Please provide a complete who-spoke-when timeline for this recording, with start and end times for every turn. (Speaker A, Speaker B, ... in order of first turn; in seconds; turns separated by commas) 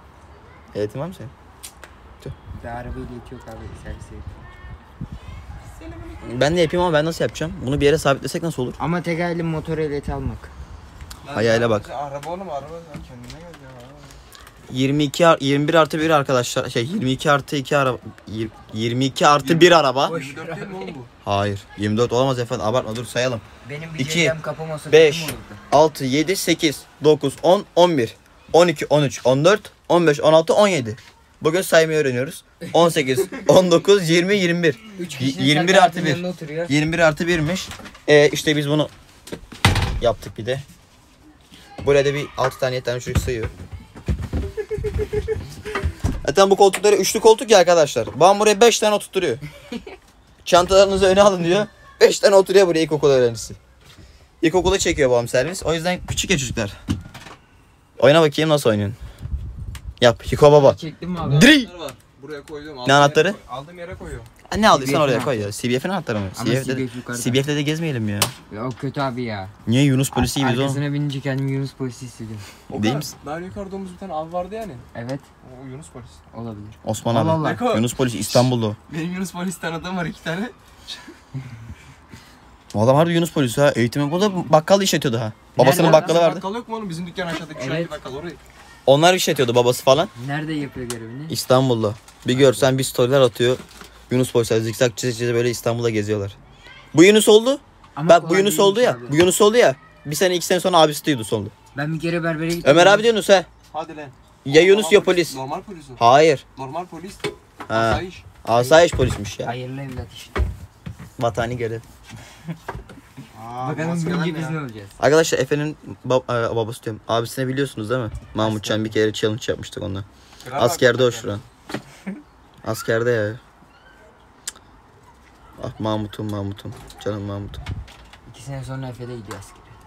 Speaker A: 0.7-1.3, Speaker B: 2.5-4.5, Speaker C: 5.7-6.5, Speaker A: 6.2-8.8, Speaker B: 8.8-10.5, Speaker C: 11.2-14.2, Speaker A: 11.3-11.9, Speaker A: 14.7-20.1, Speaker C: 19.3-21.1, Speaker B: 20.0-20.9, Speaker A: 21.2-23.4, Speaker B: 23.6-25.6, Speaker A: 24.0-24.4, Speaker A: 24.9-38.9, Speaker B: 35.0-36.8, Speaker A: 40.0-40.6, Speaker A: 41.8-43.5, Speaker A: 46.2-49.4, Speaker A: 50.4-53.6, Speaker A: 54.4-56.8, Speaker A: 58.0-59.0, Speaker A: 60.0-61.7, Speaker B: 60.4-61.5, Speaker C: 61.4-64.3, Speaker A: 62.8-63.4, Speaker A: 64.5-68.3, Speaker B: 64.7-65.5, Speaker B: 66.3-67.4, Speaker B: 68.5-69.5, Speaker A: 69.7-70.8, Speaker B: 70.1-72.5, Speaker C: 72.7-74.8, Speaker A: 72.7-73.1, Speaker B: 74.9-75.2, Speaker C: 75.4-76.2, Speaker B: 76.3-77.6, Speaker A: 76.8-78.8, Speaker C: 77.4-81.0, Speaker A: 82.7-86.5, Speaker B: 85.5-86.2, Speaker C: 85.6-88.4, Speaker B: 87.5-87.9, Speaker A: 88.8-90.1, Speaker B: 90.1-91.4, Speaker A: 91.3-96.4, Speaker B: 92.3-92.7, Speaker A: 96.9-101.5, Speaker B: 98.0-99.2, Speaker B: 101.7-103.1, Speaker A: 102.6-103.5, Speaker C: 103.7-106.0, Speaker A: 104.4-105.4, Speaker A: 106.0-106.4, Speaker C: 106.5-108.2, Speaker A: 107.7-109.5, Speaker B: 108.5-108.8, Speaker B: 109.4-110.5, Speaker A: 111.2-111.8, Speaker C: 113.3-113.8, Speaker A: 113.6-121.4, Speaker B: 113.6-115.0, Speaker B: 118.4-118.9, Speaker C: 120.4-121.4, Speaker A: 122.6-123.4, Speaker A: 125.6-127.6, Speaker B: 128.2-129.8